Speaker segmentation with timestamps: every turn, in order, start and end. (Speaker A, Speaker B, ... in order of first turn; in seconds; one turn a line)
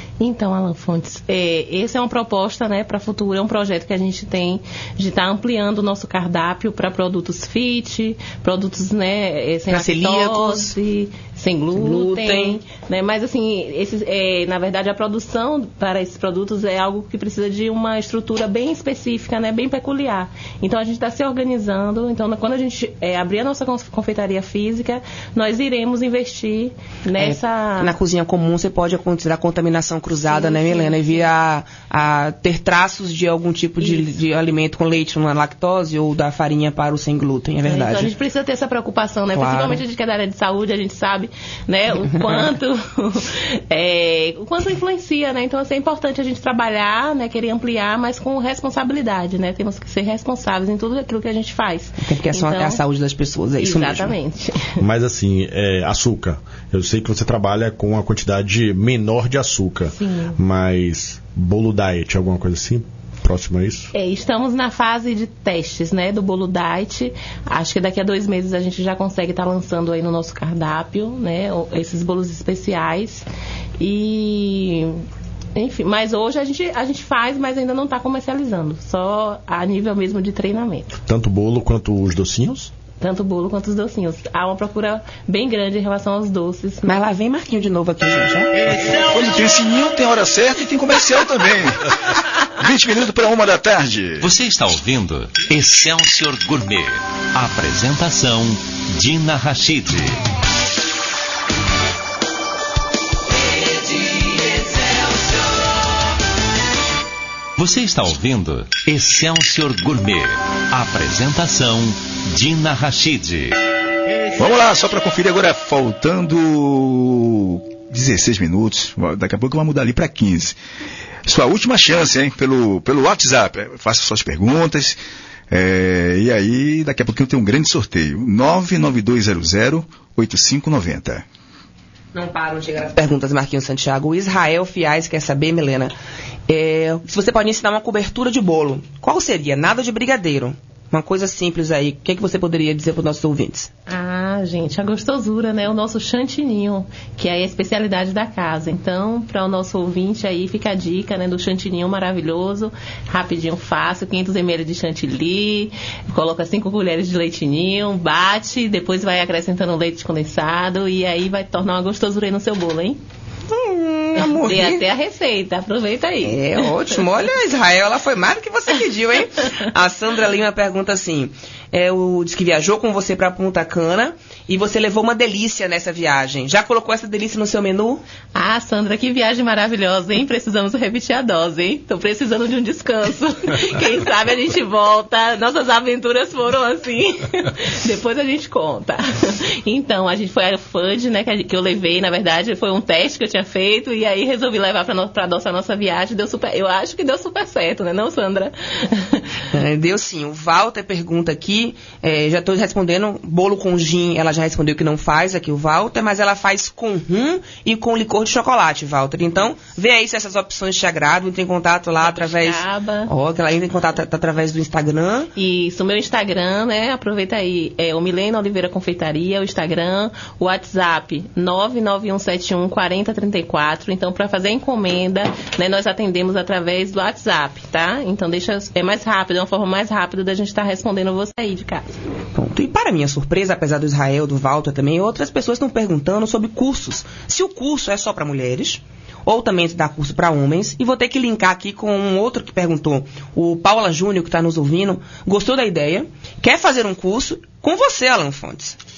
Speaker A: 0.2-28.0
Speaker B: 9.7-10.7
Speaker B: 11.8-12.6
Speaker B: 27.2-38.1
Speaker A: 30.2-31.3
Speaker A: 33.8-34.1
Speaker A: 37.7-52.8
Speaker B: 39.3-39.8
Speaker B: 52.0-54.1
Speaker A: 53.6-54.8
Speaker C: 54.8-63.9
Speaker A: 59.9-60.4
Speaker A: 63.9-73.2
Speaker A: 73.8-80.9
Speaker C: 81.0-82.7
Speaker A: 83.0-86.9
Speaker B: 86.8-88.8
Speaker D: 89.0-94.3
Speaker E: 94.2-100.2
Speaker E: 107.6-113.6
Speaker D: 114.3-120.6
Speaker D: 121.2-125.0
Speaker D: 125.5-131.3
Speaker B: 132.1-135.9
Speaker B: 136.5-143.7
Speaker A: 143.9-163.0
Speaker B: 163.5-164.8
Speaker A: 164.2-167.0
Speaker B: 166.2-178.0
Speaker A: 178.3-199.4
Speaker B: 199.5-215.3
Speaker A: 212.0-213.1
Speaker A: 215.4-232.0
Speaker B: 232.3-248.8